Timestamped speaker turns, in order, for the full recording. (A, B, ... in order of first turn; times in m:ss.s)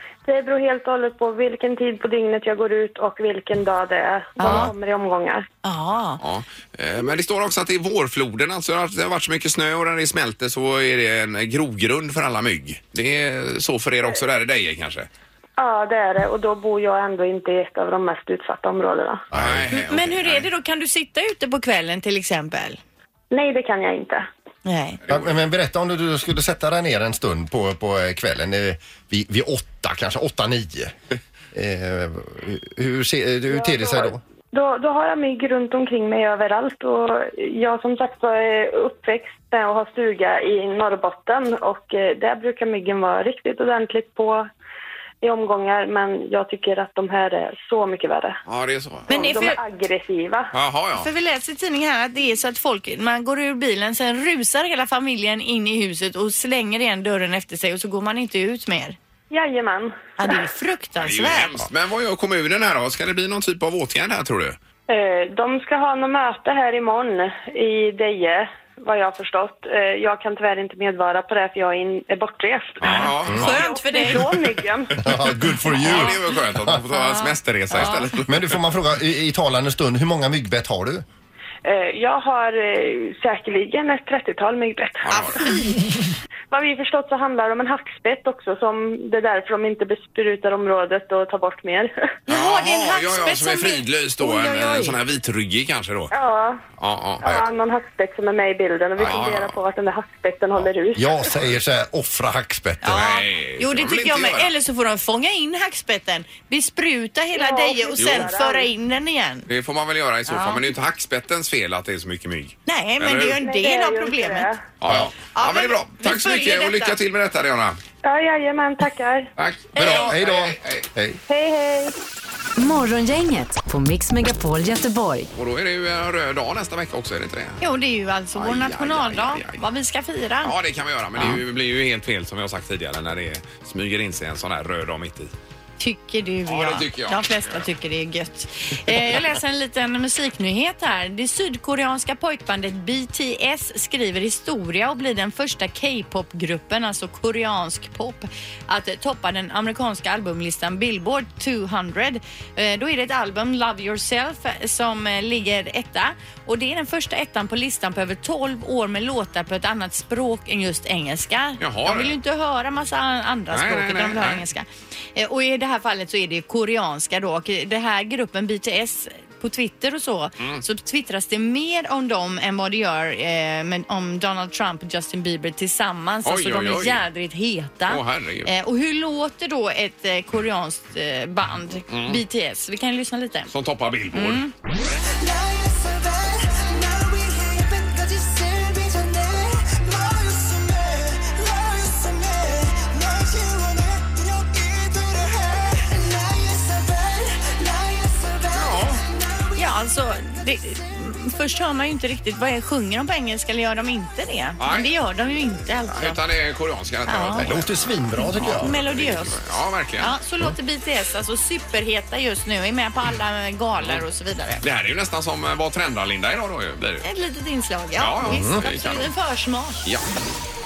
0:00.2-0:05.4 A
0:04.4-0:04.7 B
0:05.6-0:06.2 B
0:06.2-0:15.1 C
0:15.6-0:19.2 A
0:19.3-0:19.7 D
0:19.3-0:20.5 C
0:19.7-0:22.8 B
0:23.3-0:24.2 A
0:24.6-0:25.0 B
0:25.1-0:25.4 C
0:25.1-0:30.9 D
0:31.5-0:34.2 D
0:33.5-0:44.5 A
0:45.2-0:48.4 A
0:48.5-0:49.5 C
0:49.1-0:49.6 B
0:49.1-0:50.5 A
0:50.5-0:51.1 C
0:50.9-0:59.0 B
0:59.3-1:00.3 A
1:00.2-1:01.6 B
1:01.0-1:04.6 C
1:04.9-1:15.0 A
1:12.8-1:13.6 C
1:12.9-1:14.4 B
1:15.0-1:16.8 D
1:15.6-1:18.8 C
1:17.0-1:18.1 B
1:17.7-1:21.0 D
1:21.6-1:25.4 A
1:25.0-1:25.4 C
1:25.2-1:25.7 B
1:26.5-1:31.9 A
1:32.3-1:35.0 B
1:32.3-1:36.1 C
1:36.1-1:36.6 A
1:36.8-1:37.2 C
1:37.2-1:41.4 A
1:39.0-1:39.6 C
1:40.6-1:43.1 D
1:42.8-1:49.5 B
1:42.9-1:44.5 C
1:47.3-1:48.7 A
1:48.0-1:48.3 C
1:49.5-1:53.4 C
1:50.3-1:50.6 B
1:52.7-1:54.5 B
1:53.4-1:54.6 A
1:54.8-1:57.8 C
1:54.9-1:55.1 D
1:55.3-1:57.0 B
1:58.0-1:59.3 A
1:59.4-2:00.9 C
1:59.8-2:01.2 D
2:01.3-2:01.9 A
2:02.6-2:05.3 E
2:05.4-2:07.6 C
2:07.6-2:10.5 B
2:08.3-2:09.6 C
2:10.4-2:15.3 C
2:11.2-2:11.4 B
2:15.8-3:03.5 B
2:16.5-2:17.7 C
2:41.6-2:42.2 C
2:43.5-2:44.4 C
2:56.2-2:57.0 C
2:57.9-2:58.5 C
3:01.9-3:02.2 C
3:03.5-3:04.4 C
3:04.1-3:04.5 B
3:05.2-3:18.2 B
3:18.5-3:19.0 C
3:19.5-3:26.2 B
3:24.6-3:24.9 C
3:25.9-3:30.1 C
3:27.1-3:27.5 B
3:27.3-3:28.8 D
3:28.2-3:34.6 B
3:34.6-3:37.1 C
3:37.0-3:39.8 B
3:38.0-3:39.1 C
3:38.3-3:38.6 D
3:39.8-3:40.1 C